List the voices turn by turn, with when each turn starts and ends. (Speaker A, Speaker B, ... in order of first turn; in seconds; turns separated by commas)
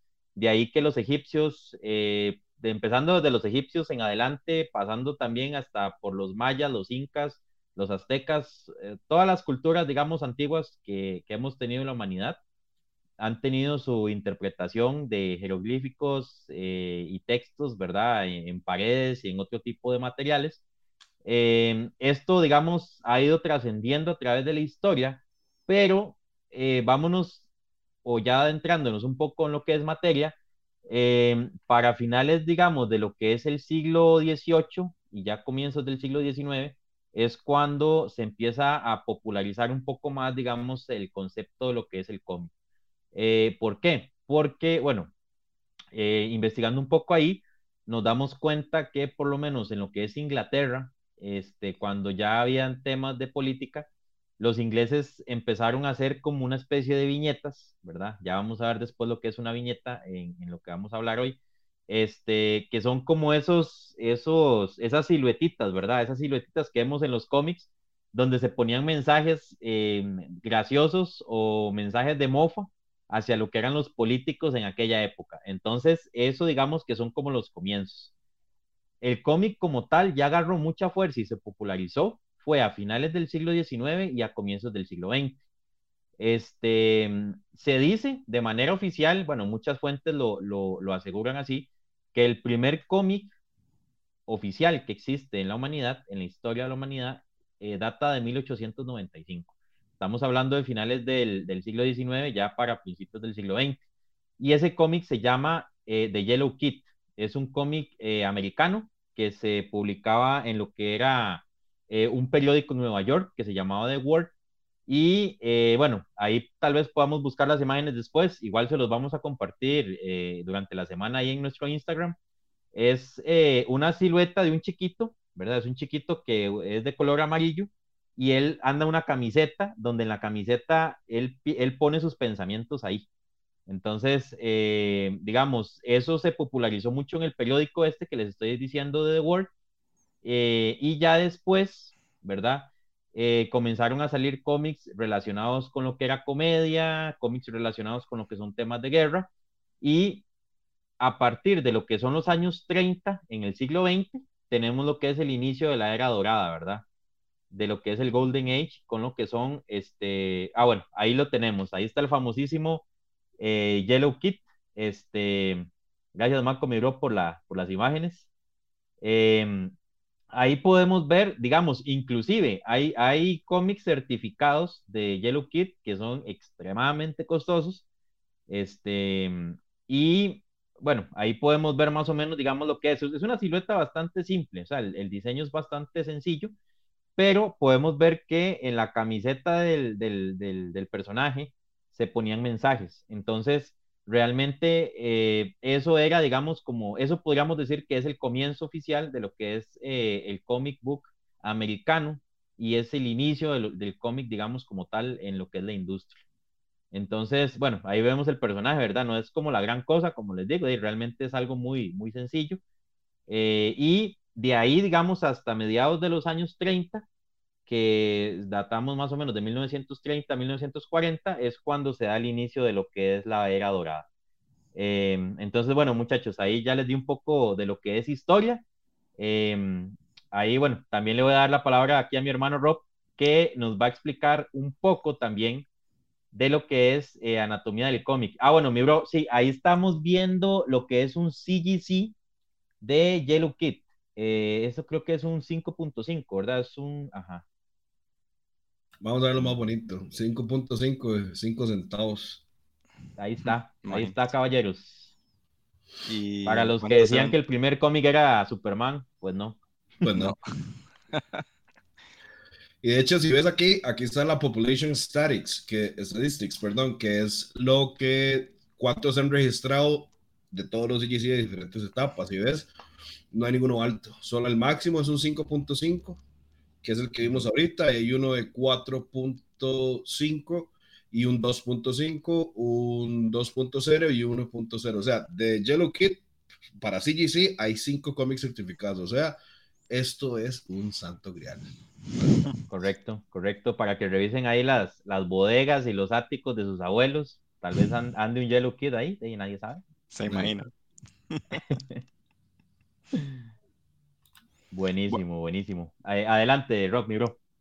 Speaker A: 0.3-12.4, Speaker A: 13.2-20.6, Speaker A: 21.2-27.4, Speaker A: 28.0-30.3, Speaker A: 30.9-42.5, Speaker A: 43.1-45.1, Speaker A: 45.9-53.9, Speaker A: 54.4-78.1, Speaker A: 79.0-85.4, Speaker A: 86.2-93.3, Speaker A: 94.3-103.8, Speaker A: 104.4-114.3, Speaker A: 114.9-122.2, Speaker A: 122.7-133.1, Speaker A: 133.7-139.5, Speaker A: 140.2-149.3, Speaker A: 149.8-150.2, Speaker A: 151.0-156.8, Speaker A: 157.5-162.8, Speaker A: 163.4-168.3, Speaker A: 169.0-169.7, Speaker A: 170.3-177.8, Speaker A: 178.5-186.5, Speaker A: 187.2-206.2, Speaker A: 206.9-212.6, Speaker A: 213.3-217.1, Speaker A: 217.7-224.1, Speaker A: 224.7-228.6, Speaker A: 229.2-235.7, Speaker A: 236.3-242.1, Speaker A: 242.8-247.4, Speaker B: 249.0-252.4, Speaker A: 253.2-255.1, Speaker C: 253.8-254.1, Speaker C: 256.1-257.3, Speaker A: 256.4-259.6, Speaker B: 260.0-260.3, Speaker C: 260.1-260.3, Speaker C: 261.1-261.4, Speaker B: 262.8-272.7, Speaker B: 273.3-276.2, Speaker B: 276.8-286.2, Speaker B: 286.8-289.4, Speaker B: 289.9-291.6, Speaker A: 292.7-299.8, Speaker C: 300.1-300.7, Speaker B: 300.2-300.5, Speaker C: 301.3-301.6, Speaker A: 301.7-302.0, Speaker A: 304.7-307.4